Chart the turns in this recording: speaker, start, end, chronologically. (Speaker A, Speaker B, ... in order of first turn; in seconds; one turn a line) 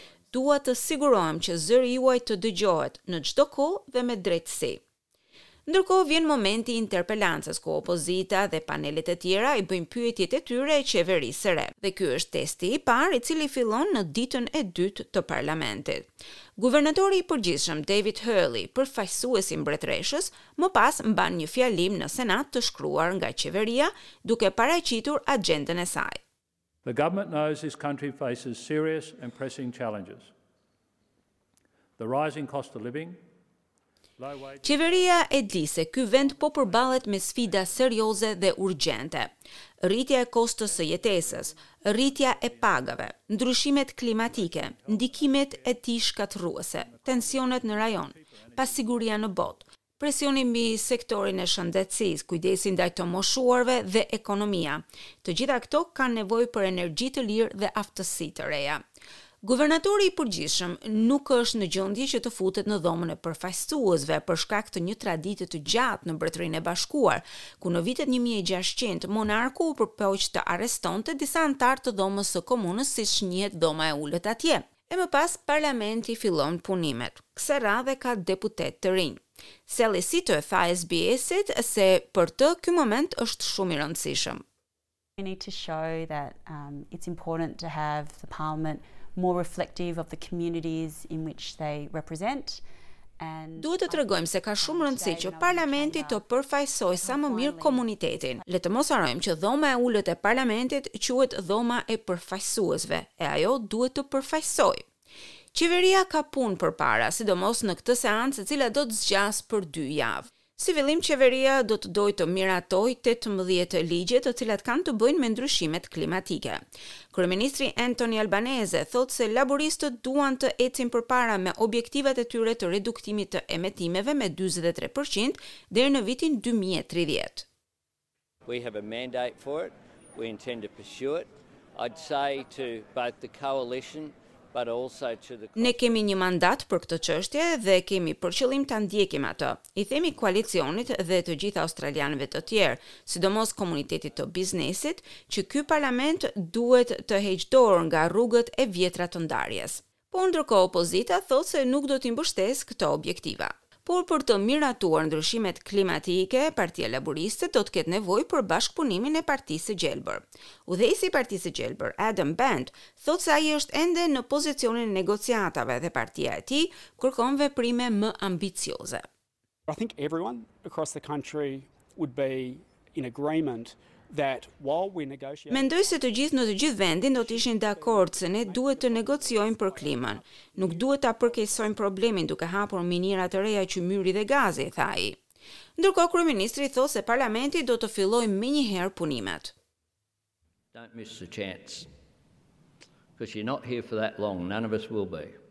Speaker A: 0.3-4.8
Speaker A: 5.7-26.2
Speaker B: 26.8-30.3
Speaker B: 32.0-33.2
Speaker B: 34.2-35.1
Speaker A: 34.6-39.3
Speaker B: 36.5-36.9
Speaker B: 37.4-37.9
Speaker A: 39.8-58.8
Speaker B: 40.7-43.0
Speaker B: 44.4-45.7
Speaker B: 46.7-48.9
Speaker A: 59.4-84.4
Speaker C: 85.2-92.6
Speaker C: 93.2-96.2
Speaker A: 93.6-104.8
Speaker C: 96.8-98.4
Speaker A: 105.5-127.5
Speaker D: 128.4-136.0
Speaker A: 135.6-169.1
Speaker E: 169.7-176.6
Speaker A: 175.5-185.2
Speaker E: 177.1-181.8
Speaker A: 185.8-189.5
Speaker D: 190.7-191.9
Speaker D: 193.2-195.3